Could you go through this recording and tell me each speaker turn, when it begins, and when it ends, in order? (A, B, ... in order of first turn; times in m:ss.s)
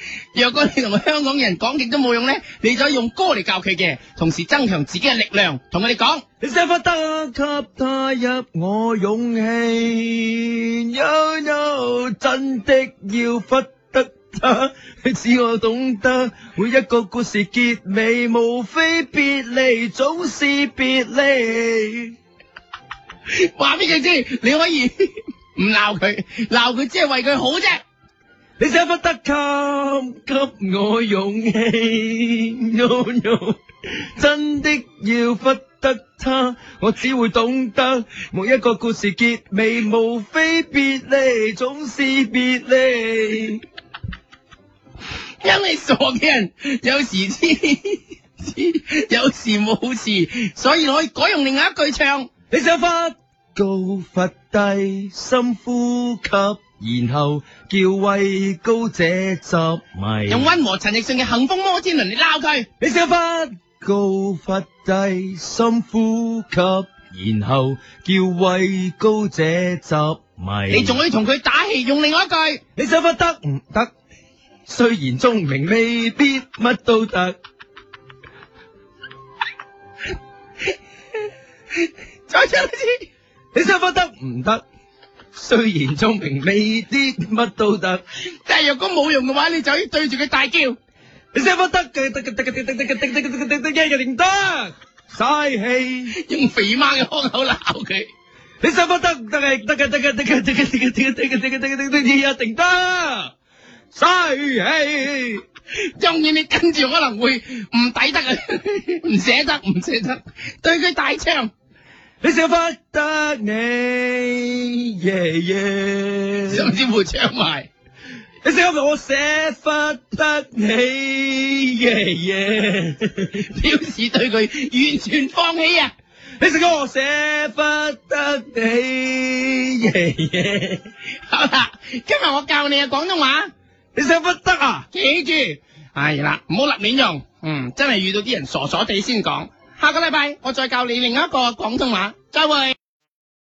0:00.3-0:06.2 A
0:06.4-0:22.1 B
0:23.3-0:27.8 A
0:28.6-0:43.6 B
0:45.4-0:52.3 A
0:52.5-1:00.5 B
1:00.3-1:02.7 A
1:02.8-1:11.0 B
1:10.7-1:12.6 A
1:12.8-1:13.9 B
1:14.7-1:17.3 B
1:22.3-1:23.0 A
1:23.5-1:24.6 B
1:25.3-1:28.0 B
1:28.4-1:30.8 A
1:31.3-1:36.1 B
1:36.1-1:38.1 A
1:38.6-1:43.3 B
1:43.9-1:45.4 B
1:46.0-1:51.5 A
1:52.2-1:56.7 B
1:56.5-1:57.7 A
1:58.4-2:03.4 B
2:03.4-2:05.9 A
2:06.4-2:10.8 B
2:11.3-2:13.5 A
2:13.9-2:14.8 B
2:14.9-2:22.8 A